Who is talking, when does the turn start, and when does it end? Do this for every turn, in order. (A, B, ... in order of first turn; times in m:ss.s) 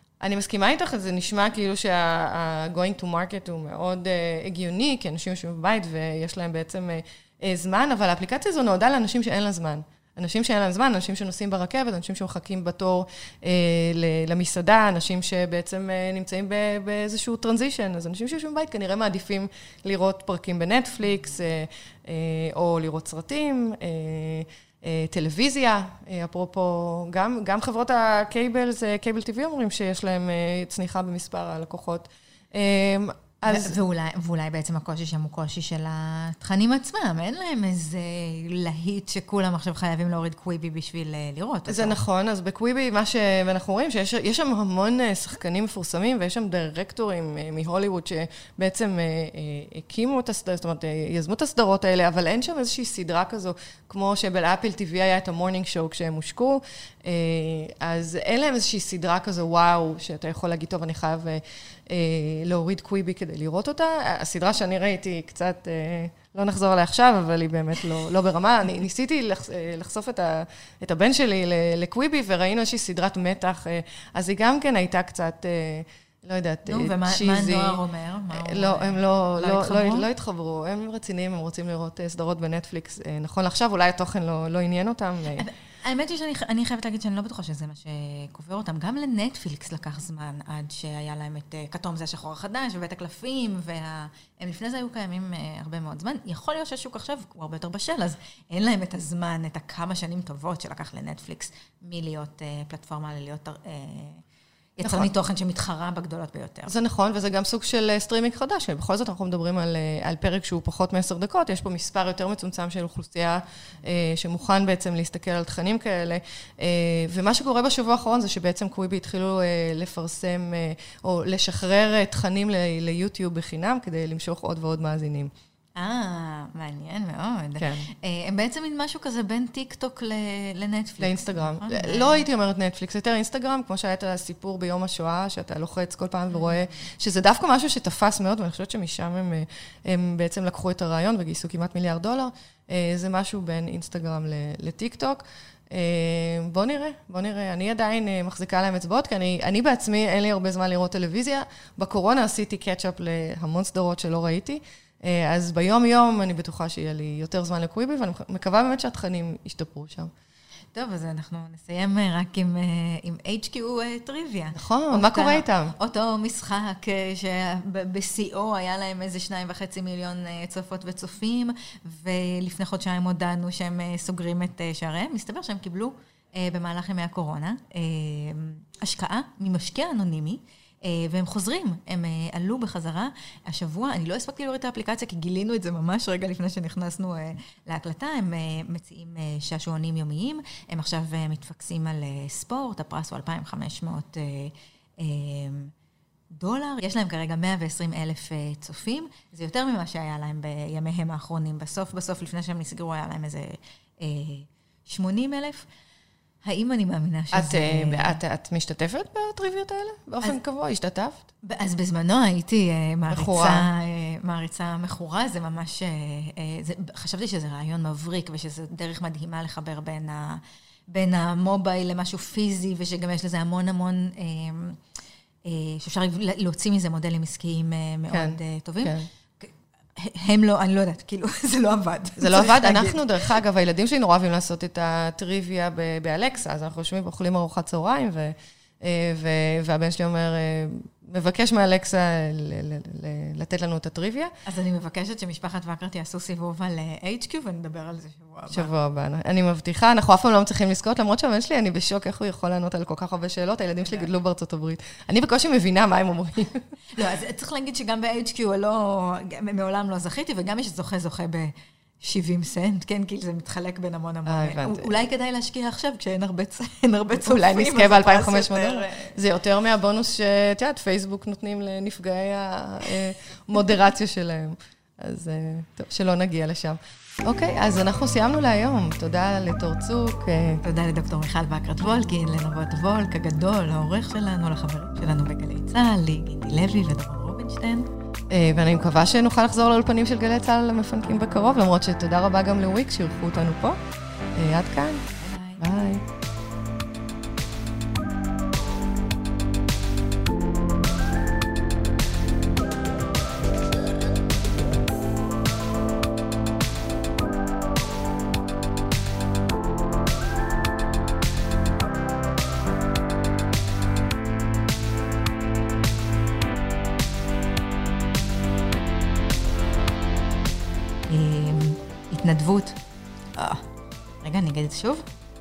0:00.2-0:33.8 A
0:33.5-0:42.0 B
0:41.7-1:17.8 A
1:16.6-1:20.1 B
1:18.3-1:25.4 A
1:25.3-1:44.2 B
1:44.8-1:46.7 B
1:44.8-1:45.1 A
1:46.7-2:05.3 A
2:05.8-2:12.2 B
2:07.6-2:07.9 A
2:11.0-2:40.1 A
2:40.7-3:15.7 B
2:44.5-2:45.7 A
3:16.3-3:25.7 B
3:26.4-3:28.2 B
3:27.3-3:31.3 A
3:31.4-3:44.8 B
3:33.1-3:33.6 A
3:45.4-3:53.3 B
3:48.1-3:49.1 A
3:52.2-4:04.3 A
4:04.4-4:08.7 B
4:08.5-4:16.6 A
4:17.0-4:29.2 B
4:24.2-4:24.9 A
4:27.2-4:40.6 A
4:40.6-4:47.9 B
4:48.3-4:53.8 A
4:54.3-4:55.0 A
4:55.2-4:55.7 B
4:55.6-4:56.0 A
5:21.1-5:22.8 B
5:23.3-5:23.6 B
5:24.2-5:25.1 B